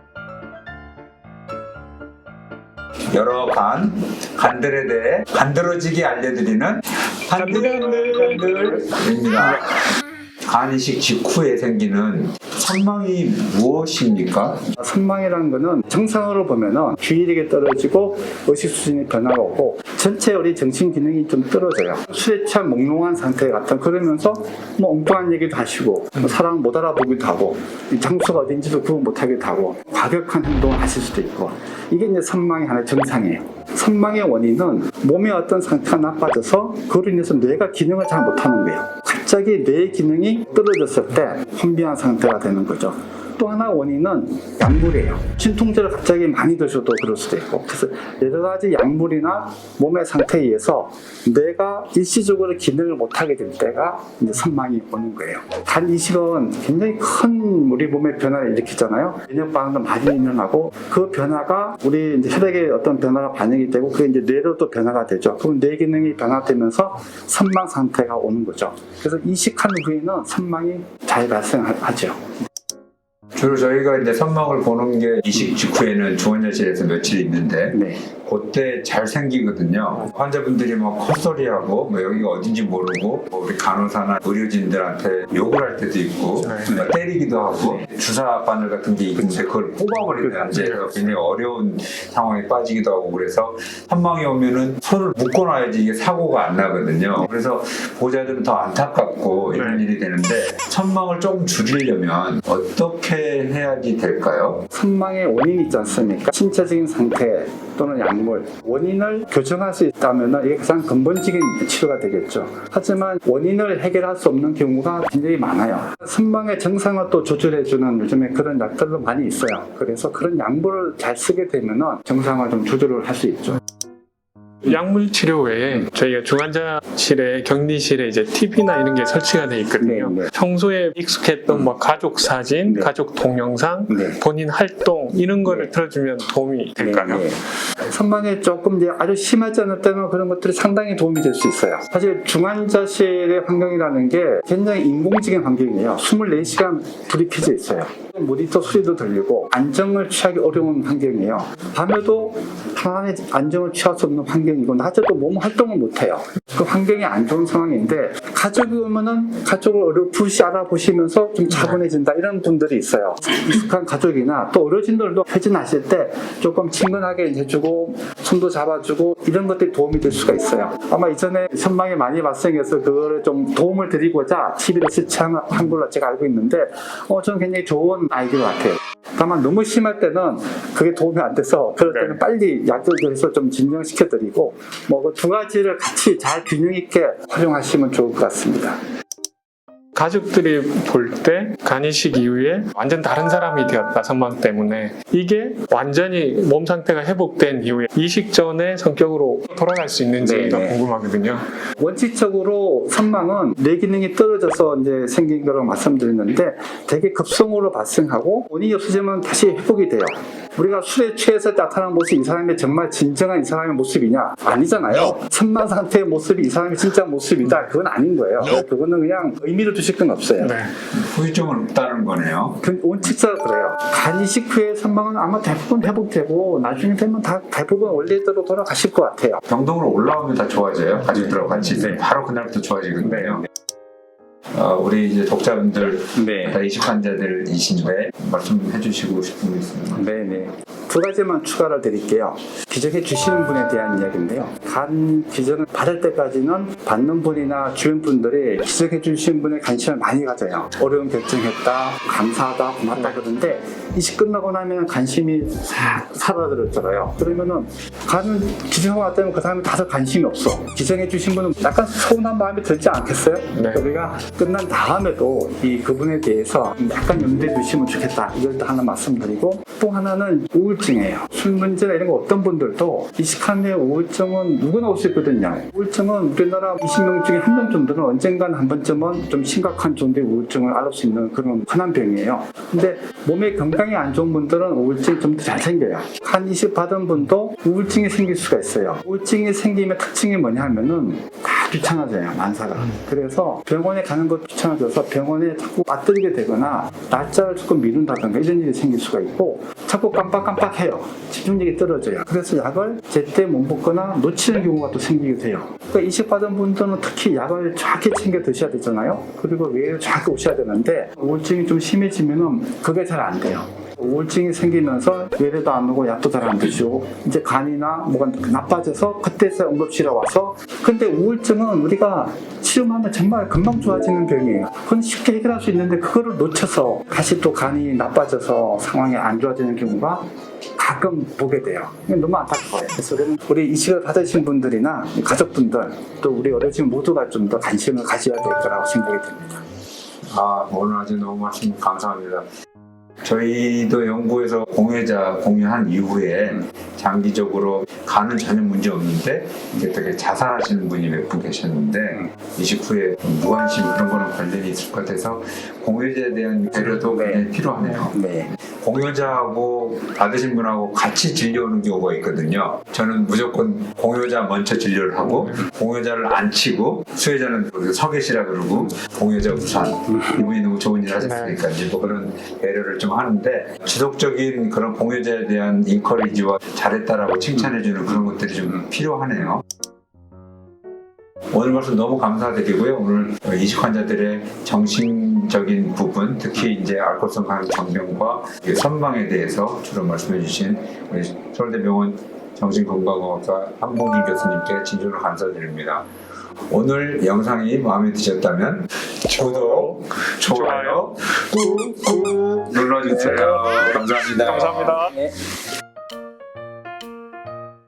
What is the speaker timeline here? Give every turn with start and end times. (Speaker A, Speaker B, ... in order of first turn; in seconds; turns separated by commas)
Speaker A: 3.1-9.7, Speaker B: 7.3-8.8, Speaker A: 10.4-14.6, Speaker C: 14.8-72.3, Speaker A: 73.3-104.7, Speaker C: 77.7-78.0, Speaker B: 86.4-86.7, Speaker C: 86.7-86.9, Speaker C: 89.1-89.5, Speaker C: 90.2-90.5, Speaker B: 90.5-90.8, Speaker B: 99.5-99.8, Speaker C: 104.7-123.6, Speaker B: 124.6-137.2, Speaker C: 129.8-130.3, Speaker C: 132.7-132.9, Speaker C: 133.9-134.2, Speaker C: 135.4-135.7, Speaker C: 136.8-188.8, Speaker B: 181.9-182.2, Speaker B: 189.9-201.5, Speaker C: 200.2-200.8, Speaker C: 201.8-220.6, Speaker B: 220.4-220.7, Speaker A: 220.9-222.6, Speaker C: 222.6-229.4, Speaker A: 229.5-233.4, Speaker C: 231.1-232.0, Speaker A: 234.5-240.0, Speaker C: 236.1-236.6, Speaker C: 239.9-330.2, Speaker B: 263.5-263.8, Speaker C: 330.8-339.6, Speaker A: 340.3-342.5, Speaker A: 343.2-358.1, Speaker C: 356.9-357.5, Speaker C: 358.1-358.5, Speaker A: 358.7-379.6, Speaker B: 371.2-371.6, Speaker A: 381.5-396.1, Speaker A: 396.7-405.1, Speaker B: 399.3-401.0, Speaker B: 404.4-405.1